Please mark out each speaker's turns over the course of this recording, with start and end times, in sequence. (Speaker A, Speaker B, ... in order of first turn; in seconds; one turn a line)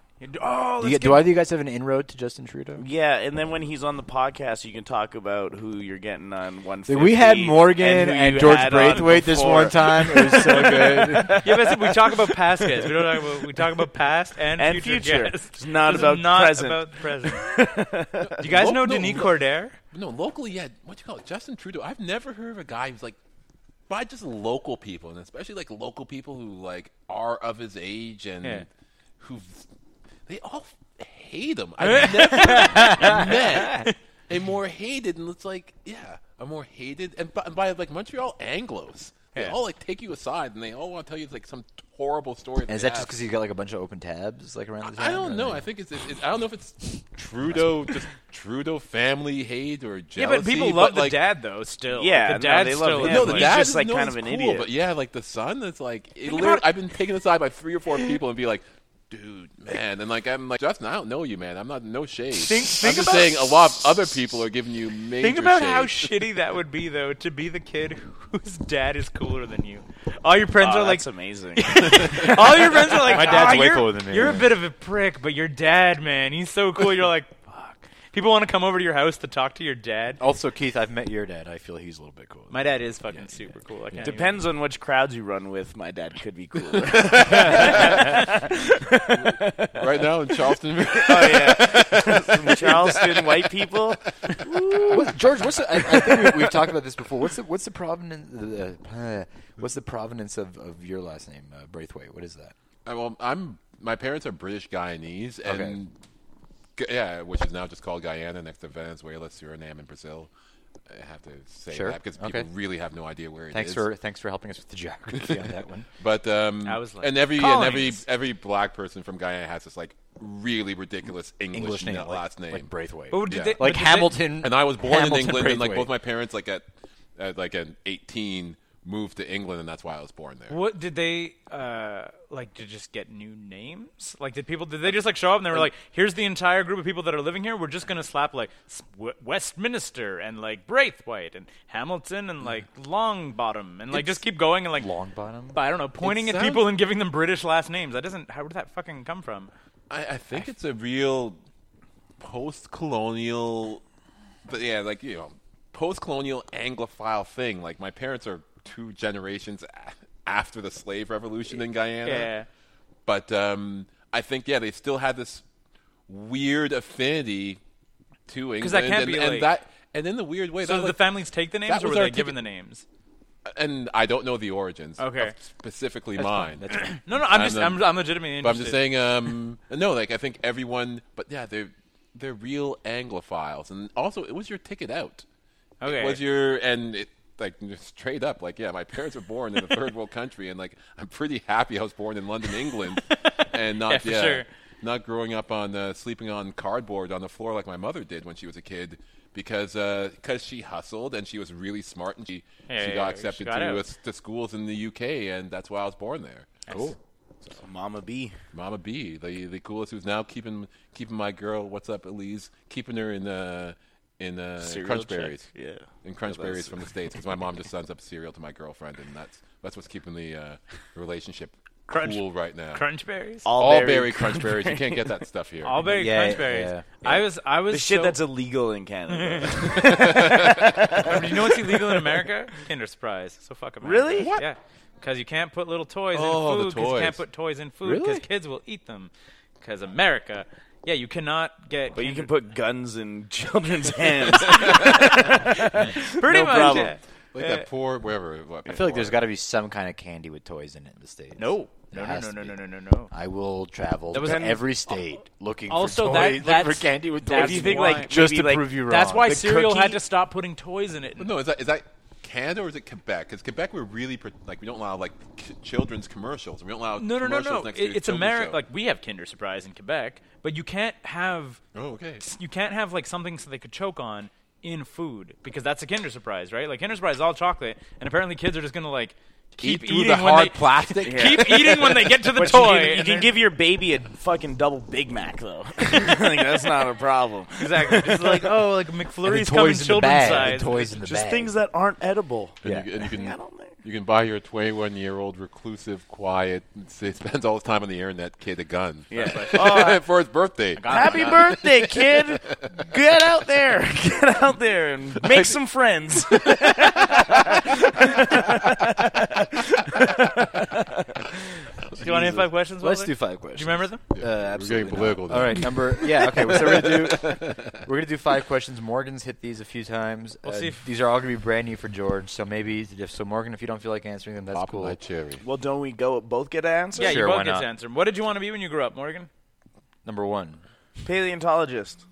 Speaker A: 0.2-1.3
Speaker B: 0.8-2.9
Speaker C: 2.8-12.2
Speaker B: 6.9-11.5
Speaker A: 8.8-9.2
Speaker A: 11.4-17.5
Speaker C: 12.8-13.2
Speaker C: 14.6-18.4
Speaker D: 18.2-19.4
Speaker A: 18.4-19.8
Speaker D: 19.9-23.2
Speaker D: 23.9-28.7
Speaker D: 29.2-29.7
Speaker D: 30.3-43.2
Speaker A: 31.8-33.9
Speaker B: 42.7-45.7
Speaker D: 44.8-51.2
Speaker A: 50.2-53.6
Speaker C: 51.9-54.7
Speaker D: 53.0-66.2
Speaker A: 56.2-56.7
Speaker A: 62.4-64.1
Speaker A: 65.2-71.0
Speaker C: 70.6-73.2
Speaker A: 71.6-80.2
Speaker B: 73.0-74.6
Speaker B: 80.2-83.4
Speaker A: 82.5-84.4
Speaker C: 84.0-95.0
Speaker D: 86.9-88.1
Speaker A: 87.6-88.2
Speaker D: 89.2-93.7
Speaker D: 94.3-95.0
Speaker B: 94.9-102.5
Speaker C: 96.0-96.5
Speaker D: 102.8-106.0
Speaker B: 105.4-105.8
Speaker D: 106.8-110.3
Speaker D: 110.9-113.8
Speaker B: 111.7-112.5
Speaker B: 113.5-115.9
Speaker D: 116.0-122.7
Speaker A: 116.6-118.0
Speaker B: 121.5-125.9
Speaker A: 123.1-124.2
Speaker D: 123.3-130.6
Speaker A: 130.5-144.9
Speaker B: 144.7-145.6
Speaker A: 145.5-149.5
Speaker D: 146.0-146.7
Speaker D: 149.9-151.4
Speaker D: 152.2-153.8
Speaker D: 154.5-162.3
Speaker A: 162.0-162.5
Speaker D: 163.1-165.4
Speaker D: 166.1-167.6
Speaker D: 168.3-171.1
Speaker A: 168.6-169.5
Speaker A: 170.6-172.8
Speaker D: 171.7-172.4
Speaker D: 173.5-185.2
Speaker A: 175.0-175.4
Speaker B: 176.2-177.0
Speaker A: 176.7-178.8
Speaker A: 185.8-186.2
Speaker D: 185.8-206.6
Speaker A: 193.1-194.5
Speaker A: 202.7-203.8
Speaker A: 206.7-206.9
Speaker B: 206.7-207.0
Speaker C: 207.6-208.4
Speaker D: 208.5-215.5
Speaker C: 214.6-216.9
Speaker D: 216.0-222.8
Speaker A: 221.9-223.5
Speaker C: 223.4-225.2
Speaker D: 223.5-225.9
Speaker A: 225.6-228.2
Speaker B: 225.8-226.9
Speaker C: 227.7-232.2
Speaker A: 229.1-229.8
Speaker D: 229.6-230.8
Speaker A: 231.0-242.3
Speaker C: 233.8-234.4
Speaker D: 234.2-234.5
Speaker D: 236.1-237.2
Speaker B: 237.8-238.2
Speaker C: 241.9-247.0
Speaker A: 244.5-247.7
Speaker B: 246.5-246.9
Speaker D: 247.3-249.2
Speaker B: 248.7-259.4
Speaker A: 251.4-253.1
Speaker A: 254.1-254.6
Speaker C: 254.2-254.6
Speaker A: 255.7-258.2
Speaker C: 257.3-260.0
Speaker A: 258.8-261.4
Speaker D: 261.2-268.6
Speaker A: 267.0-271.6
Speaker D: 271.8-272.2
Speaker A: 272.2-283.4
Speaker D: 279.6-282.1
Speaker C: 281.0-288.5
Speaker A: 287.6-290.9
Speaker B: 289.2-291.6
Speaker C: 291.0-293.8
Speaker D: 292.6-302.7
Speaker B: 292.6-293.0
Speaker C: 299.1-300.0
Speaker A: 299.1-299.8
Speaker A: 300.8-301.6
Speaker C: 300.9-311.7
Speaker D: 305.2-305.5
Speaker D: 306.4-307.6
Speaker A: 312.0-314.0
Speaker B: 312.0-325.0
Speaker D: 314.1-317.8
Speaker A: 320.4-320.9
Speaker D: 324.5-325.4
Speaker C: 325.4-327.3
Speaker B: 327.0-327.7
Speaker A: 327.0-329.3
Speaker B: 330.1-330.6
Speaker C: 331.0-332.0